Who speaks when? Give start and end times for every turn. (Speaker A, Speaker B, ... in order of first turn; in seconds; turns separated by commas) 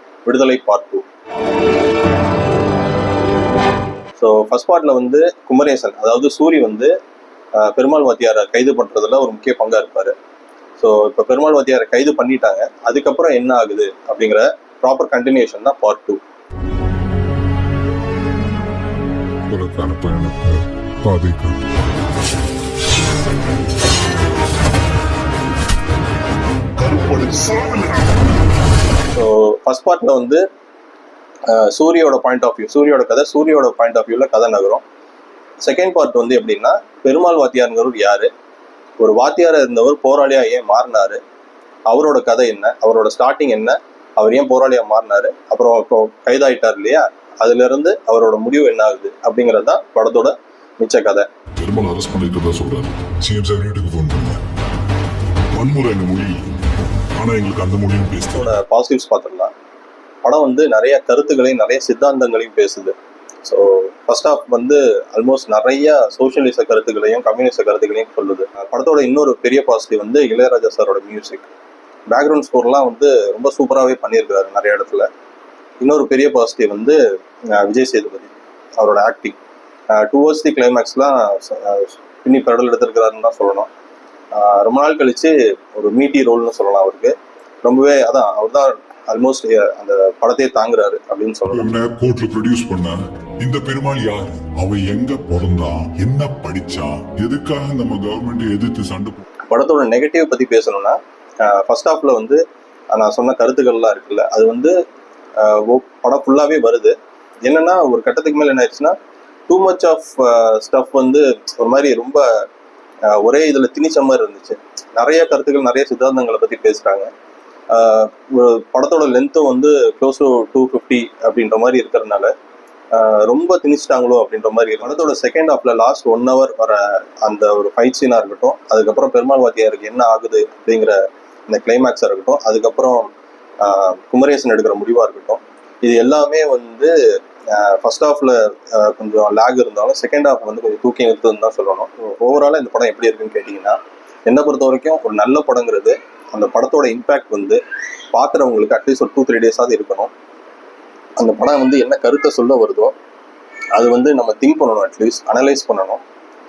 Speaker A: 0.2-1.1, Speaker A: 4.2-6.9, Speaker A: 7.5-10.1, Speaker A: 10.8-16.2, Speaker B: 19.5-21.6, Speaker B: 26.8-28.1, Speaker A: 29.1-30.4, Speaker A: 31.4-34.8, Speaker A: 35.6-38.3, Speaker A: 39.0-41.2, Speaker A: 41.9-51.3, Speaker B: 51.6-54.4, Speaker B: 55.5-56.5, Speaker B: 57.2-58.5, Speaker A: 58.3-59.5, Speaker A: 60.2-71.5, Speaker A: 72.1-75.1, Speaker A: 75.8-77.0, Speaker A: 77.5-79.4, Speaker A: 79.9-83.7, Speaker A: 84.3-91.7, Speaker B: 91.5-99.2, Speaker A: 99.5-102.4, Speaker A: 102.9-104.7, Speaker A: 105.4-109.0, Speaker A: 109.5-112.5, Speaker A: 113.0-117.1, Speaker A: 117.7-122.3, Speaker A: 122.9-136.9, Speaker A: 137.5-147.6, Speaker A: 148.1-150.1, Speaker A: 151.2-152.9, Speaker A: 153.7-156.0